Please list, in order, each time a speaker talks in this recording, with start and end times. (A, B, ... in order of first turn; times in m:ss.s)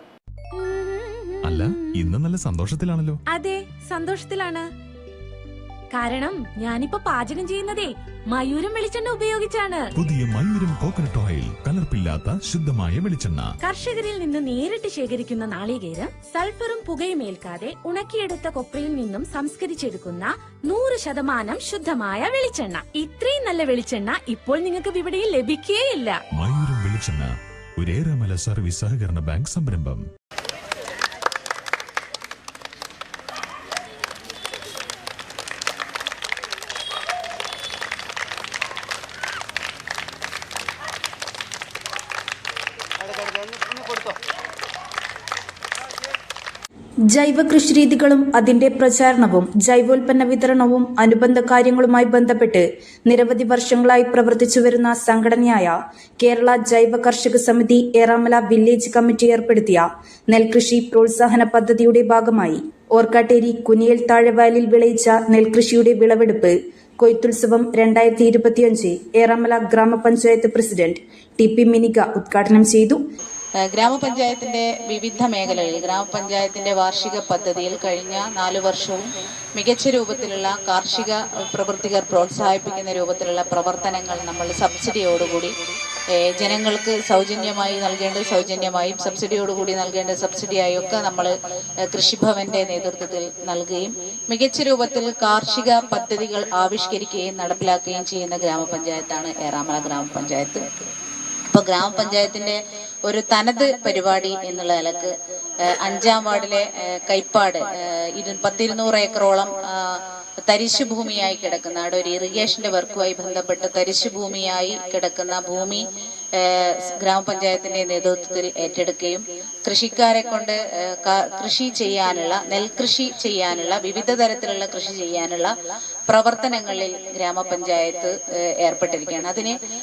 0:00.6-0:02.1 A
0:01.4-0:03.2 B
0:03.3-0:04.6 A
0:05.9-0:09.9 A
0:10.0-0:13.5 B
0:13.6-0:26.2 A
0:26.3-0:30.0 B
0:47.1-1:13.0 C
1:13.7-1:25.5 D
1:26.2-1:31.3 D
1:31.9-1:40.9 D
1:41.5-1:45.1 D
1:45.7-1:55.8 D
1:56.4-2:05.5 D
2:06.1-2:09.5 D